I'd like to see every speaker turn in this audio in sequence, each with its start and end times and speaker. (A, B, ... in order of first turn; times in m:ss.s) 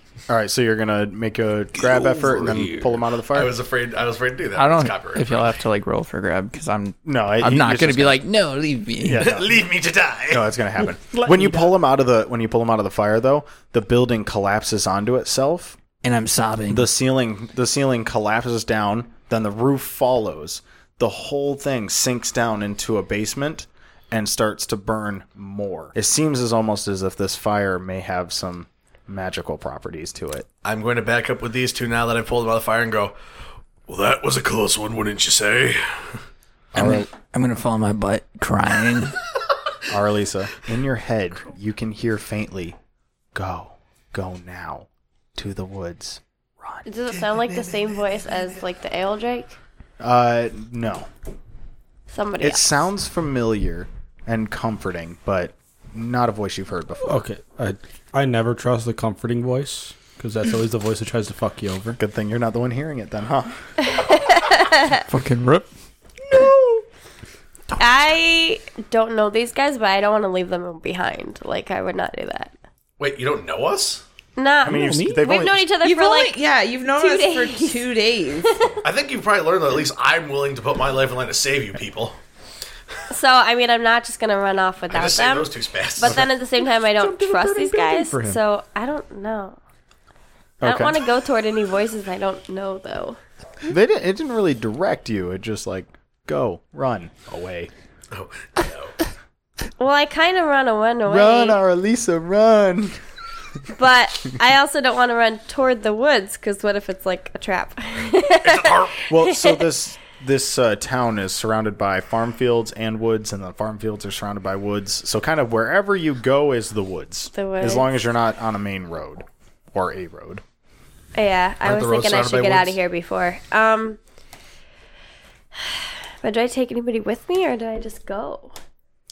0:00.3-0:03.6 A
0:03.3-0:05.6 B
0:04.5-0:09.4 C
0:07.0-0:08.2 A
0:09.0-0:09.6 A
0:09.1-0:10.5 B
0:10.3-0:15.8 A
0:11.0-0:11.7 D
0:16.0-0:16.9 C
0:16.7-0:30.5 A
0:30.6-0:33.1 B
0:33.9-0:36.2 B
0:36.7-0:39.2 C
0:36.7-0:37.0 A
0:39.9-0:42.8 A
0:43.3-0:46.2 A
0:46.8-0:49.6 E
0:47.1-0:48.6 B
0:50.0-0:51.1 A
0:52.1-0:52.7 E
0:52.4-0:57.2 A
0:57.0-1:02.0 D
1:02.0-1:03.6 A
1:03.8-1:05.0 E
1:05.1-1:05.7 C
1:06.3-1:06.8 D
1:07.8-1:12.5 E
1:13.0-1:14.0 B
1:14.4-1:16.4 E
1:14.6-1:15.3 D
1:14.6-1:15.6 A
1:15.8-1:18.5 F
1:16.9-1:17.8 E
1:18.4-1:18.8 E
1:18.8-1:22.2 B
1:23.1-1:29.6 E
1:24.9-1:26.2 B
1:26.0-1:28.4 D
1:30.6-1:31.0 A
1:30.6-1:33.2 E
1:33.7-1:37.7 A
1:38.1-1:38.9 B
1:39.8-1:41.6 E
1:41.0-1:43.0 A
1:43.7-1:49.7 E
1:48.4-1:49.0 B
1:49.1-2:00.4 A
1:57.3-1:57.9 E
2:01.1-2:04.0 E
2:01.6-2:02.8 B
2:05.6-2:08.6 E